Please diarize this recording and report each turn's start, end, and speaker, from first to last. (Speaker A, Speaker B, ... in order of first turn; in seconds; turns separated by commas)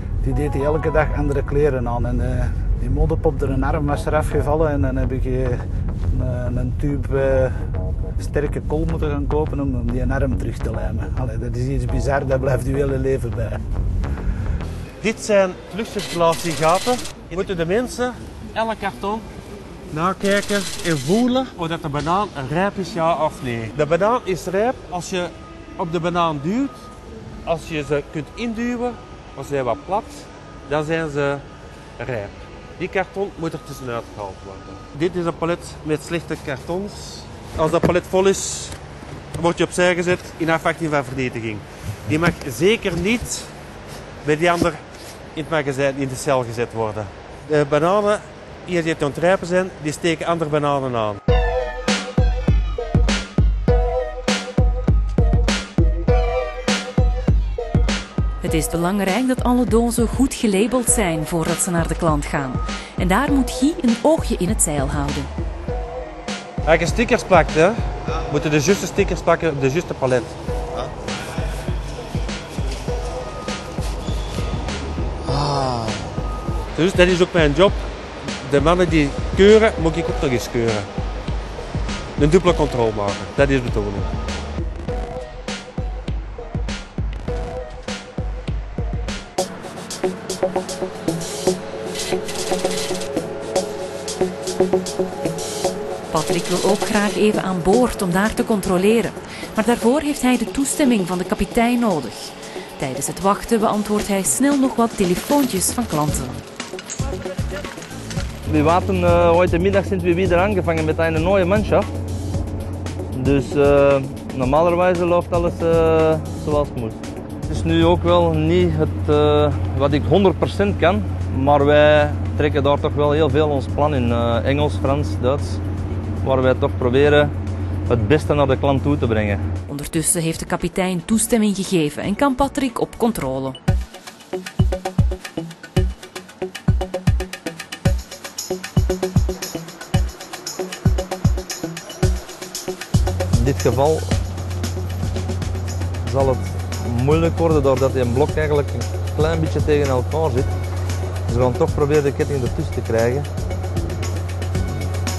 Speaker A: 0.2-7.6, Speaker A: 8.2-13.6, Speaker B: 15.0-19.3, Speaker B: 19.9-26.9, Speaker B: 27.4-31.4, Speaker B: 32.0-38.8, Speaker B: 39.4-43.5, Speaker B: 44.2-44.8, Speaker B: 45.3-51.2, Speaker C: 58.4-65.3, Speaker B: 66.6-70.4, Speaker B: 75.3-76.2, Speaker B: 76.7-80.9, Speaker B: 82.2-84.1, Speaker C: 96.1-106.3, Speaker D: 108.5-111.9, Speaker D: 113.1-125.6, Speaker D: 126.2-127.3, Speaker D: 127.9-129.4, Speaker C: 129.7-133.6, Speaker D: 143.3-144.1, Speaker D: 146.0-150.5, Speaker D: 151.3-153.3